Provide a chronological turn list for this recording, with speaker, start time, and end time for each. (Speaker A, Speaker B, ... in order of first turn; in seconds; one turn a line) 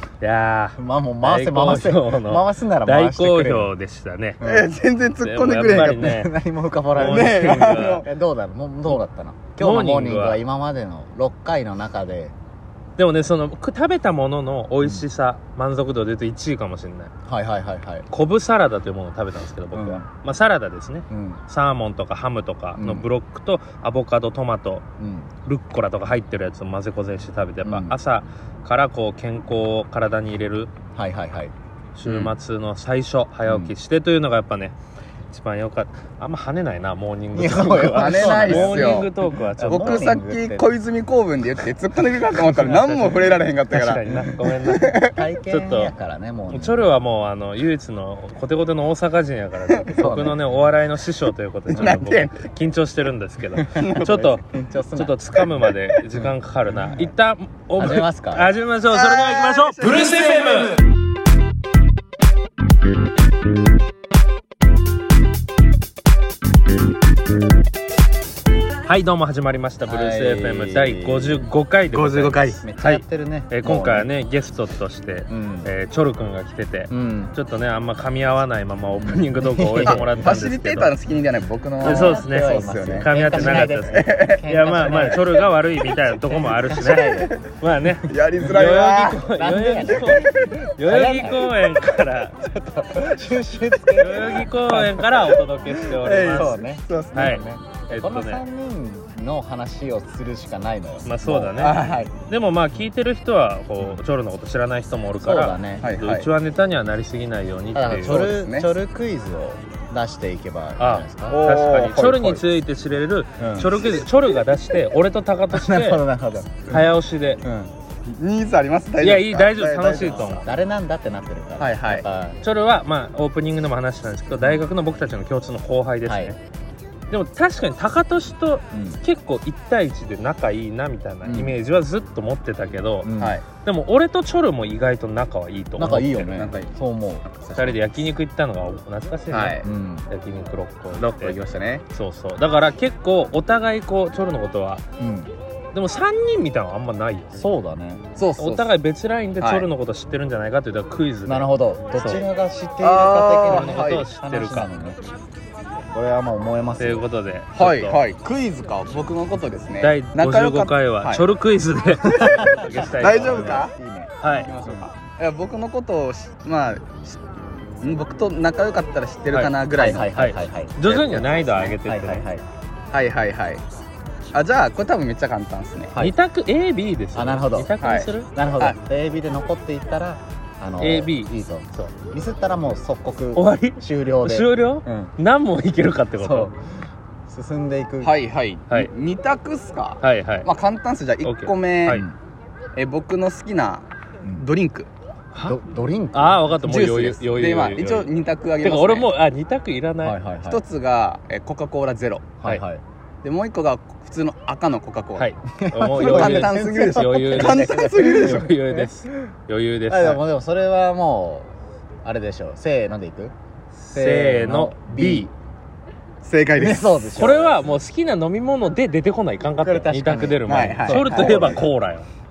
Speaker A: 0.2-4.4
Speaker B: 0.8-3.7
Speaker B: 4.4-4.7
Speaker C: 4.4-6.2
Speaker A: 5.2-6.3
Speaker B: 5.8-12.3
Speaker A: 6.9-8.0
Speaker C: 7.0-8.0
Speaker A: 9.6-10.4
Speaker A: 13.0-17.1
Speaker B: 17.2-18.1
Speaker A: 18.1-24.8
Speaker B: 19.7-20.1
Speaker B: 21.1-21.4
Speaker B: 22.8-23.1
Speaker B: 25.0-25.3
Speaker A: 25.4-30.7
Speaker B: 27.6-28.0
Speaker B: 30.9-31.5
Speaker A: 31.9-34.8
Speaker C: 32.0-32.3
Speaker B: 33.5-33.7
Speaker A: 35.3-40.1
Speaker B: 37.3-40.7
Speaker C: 37.9-39.1
Speaker C: 39.6-45.2
Speaker A: 42.5-45.9
Speaker B: 45.0-46.9
Speaker A: 46.5-54.4
Speaker B: 49.9-50.4
Speaker B: 51.7-52.0
Speaker C: 51.7-52.4
Speaker B: 53.6-55.5
Speaker C: 53.8-54.1
Speaker A: 54.9-60.8
Speaker B: 57.8-58.5
Speaker C: 58.9-60.7
Speaker A: 68.8-80.9
Speaker B: 69.8-71.5
Speaker C: 71.9-72.6
Speaker B: 72.6-74.1
Speaker B: 75.3-75.7
Speaker B: 76.9-77.3
Speaker B: 79.0-80.1
Speaker C: 79.8-85.2
Speaker B: 81.8-85.2
Speaker A: 81.8-92.4
Speaker B: 86.4-87.3
Speaker C: 86.8-87.5
Speaker C: 88.0-89.2
Speaker B: 89.3-91.6
Speaker B: 92.4-95.0
Speaker A: 94.0-96.5
Speaker C: 96.0-97.4
Speaker B: 96.2-101.9
Speaker A: 97.1-98.4
Speaker A: 101.0-108.3
Speaker C: 101.6-102.1
Speaker B: 105.2-105.9
Speaker C: 105.8-106.3
Speaker B: 107.7-111.4
Speaker C: 108.1-108.7
Speaker A: 110.8-116.0
Speaker C: 111.3-112.5
Speaker B: 113.4-113.8
Speaker B: 115.5-116.9
Speaker A: 116.7-117.4
Speaker B: 117.4-117.7
Speaker C: 118.1-120.4
Speaker A: 119.0-120.5
Speaker B: 120.2-122.4
Speaker C: 121.6-122.0
Speaker A: 122.4-126.4
Speaker B: 124.4-124.7
Speaker B: 126.0-126.3
Speaker A: 127.1-136.4
Speaker B: 128.7-129.0
Speaker B: 131.2-131.6
Speaker B: 133.0-133.4
Speaker C: 133.2-133.4
Speaker B: 135.8-137.2
Speaker C: 136.2-136.7
Speaker C: 137.2-138.1
Speaker A: 137.6-141.4
Speaker C: 139.3-139.6
Speaker B: 139.6-140.1
Speaker C: 140.9-141.8
Speaker A: 141.9-144.8
Speaker B: 145.0-145.3
Speaker A: 145.7-147.5
Speaker B: 147.3-148.0
Speaker C: 148.2-148.7
Speaker A: 148.4-152.2
Speaker C: 149.4-149.7
Speaker B: 151.2-155.0
Speaker C: 152.8-154.1
Speaker A: 153.5-154.7
Speaker B: 155.9-157.0
Speaker A: 156.8-158.0
Speaker C: 157.6-161.2
Speaker A: 159.8-163.7
Speaker B: 162.1-164.9
Speaker C: 162.2-163.7
Speaker A: 164.2-164.5
Speaker C: 164.3-170.1
Speaker A: 169.3-172.3
Speaker B: 169.7-172.4
Speaker C: 170.8-171.7
Speaker C: 172.9-173.6
Speaker C: 174.3-175.9
Speaker A: 175.9-178.3
Speaker B: 177.1-177.8
Speaker C: 177.8-178.8
Speaker B: 178.3-185.1
Speaker A: 180.8-181.9
Speaker A: 183.3-186.5
Speaker B: 186.2-186.6
Speaker B: 187.3-188.2
Speaker C: 188.0-192.0
Speaker A: 190.0-190.5
Speaker A: 191.2-192.1
Speaker B: 191.9-192.1
Speaker C: 192.8-193.8
Speaker C: 194.4-194.9
Speaker A: 195.3-195.6
Speaker B: 195.4-196.7
Speaker A: 196.1-200.2
Speaker C: 196.7-199.1
Speaker B: 200.0-200.6
Speaker C: 200.5-202.4
Speaker B: 202.4-202.8
Speaker C: 203.2-205.3
Speaker A: 205.2-210.2
Speaker B: 205.6-209.1
Speaker C: 205.9-208.5
Speaker B: 209.9-213.3
Speaker A: 213.7-215.3
Speaker B: 213.9-215.3
Speaker C: 216.2-217.3
Speaker B: 216.6-217.6
Speaker A: 217.2-222.1
Speaker B: 219.6-221.7
Speaker C: 220.4-221.6